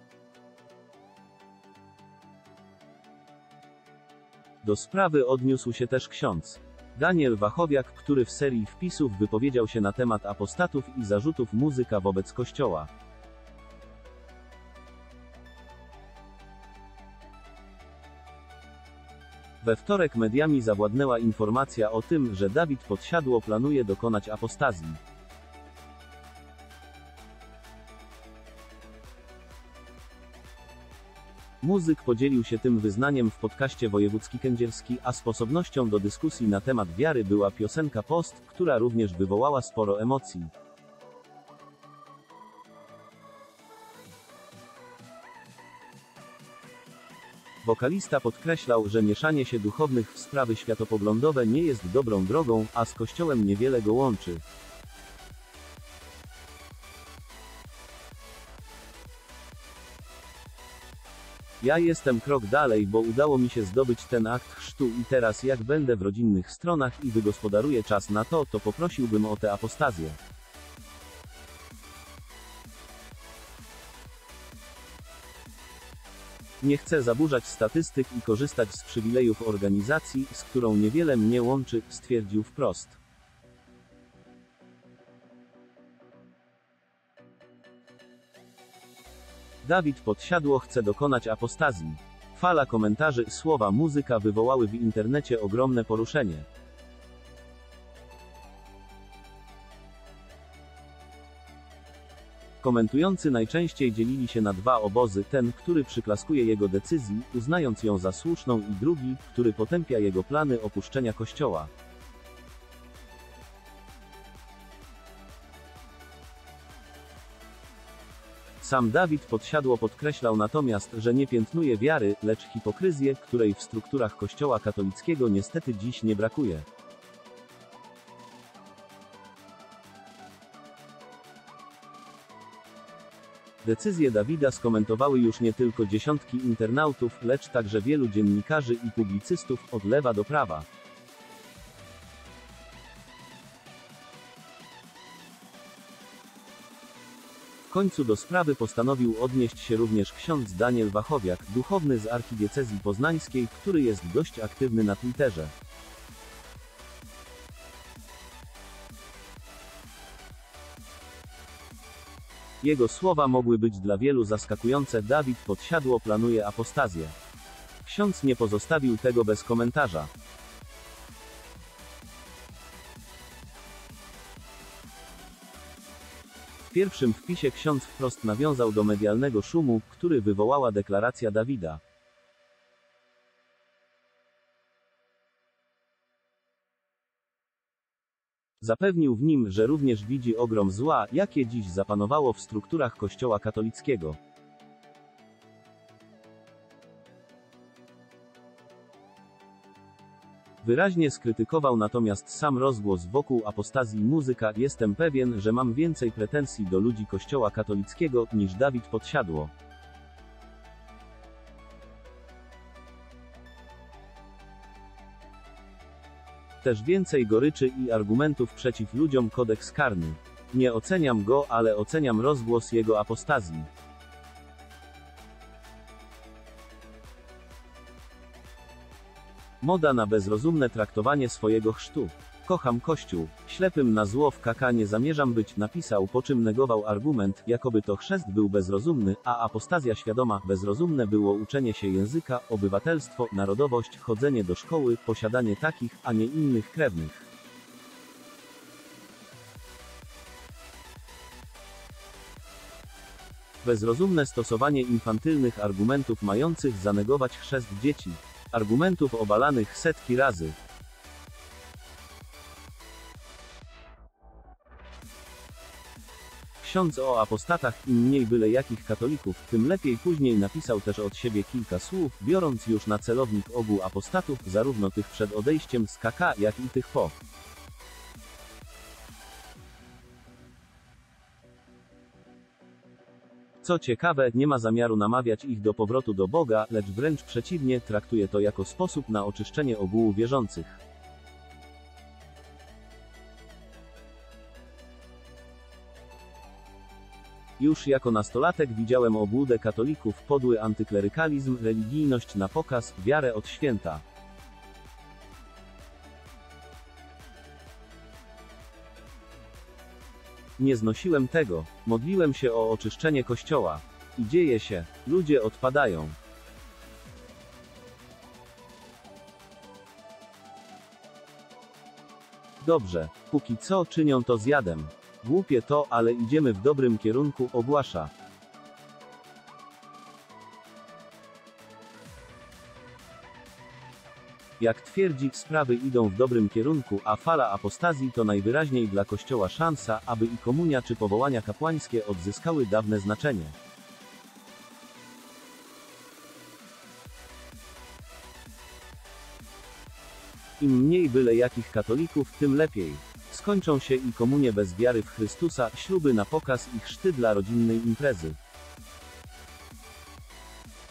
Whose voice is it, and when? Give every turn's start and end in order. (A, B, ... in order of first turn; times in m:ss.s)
0:04.6-0:12.9 A
0:19.6-0:25.0 A
0:31.6-0:40.5 A
0:47.6-0:54.4 A
1:01.6-1:10.2 A
1:16.6-1:23.0 A
1:29.6-1:36.5 A
1:42.6-1:51.7 A
1:58.6-2:06.6 A
2:13.6-2:20.6 A
2:27.7-2:35.5 A
2:42.6-2:47.1 A
2:47.8-2:50.1 A
2:56.7-3:01.8 A
3:08.6-3:14.2 A
3:20.6-3:29.5 A
3:36.6-3:43.7 A
3:49.6-4:07.3 A
4:13.6-4:20.6 A
4:26.6-4:37.2 A
4:43.6-4:50.8 A
4:57.6-5:04.0 A
5:10.6-5:16.2 A
5:22.6-5:28.1 A
5:34.6-5:43.6 A
5:50.6-5:58.4 A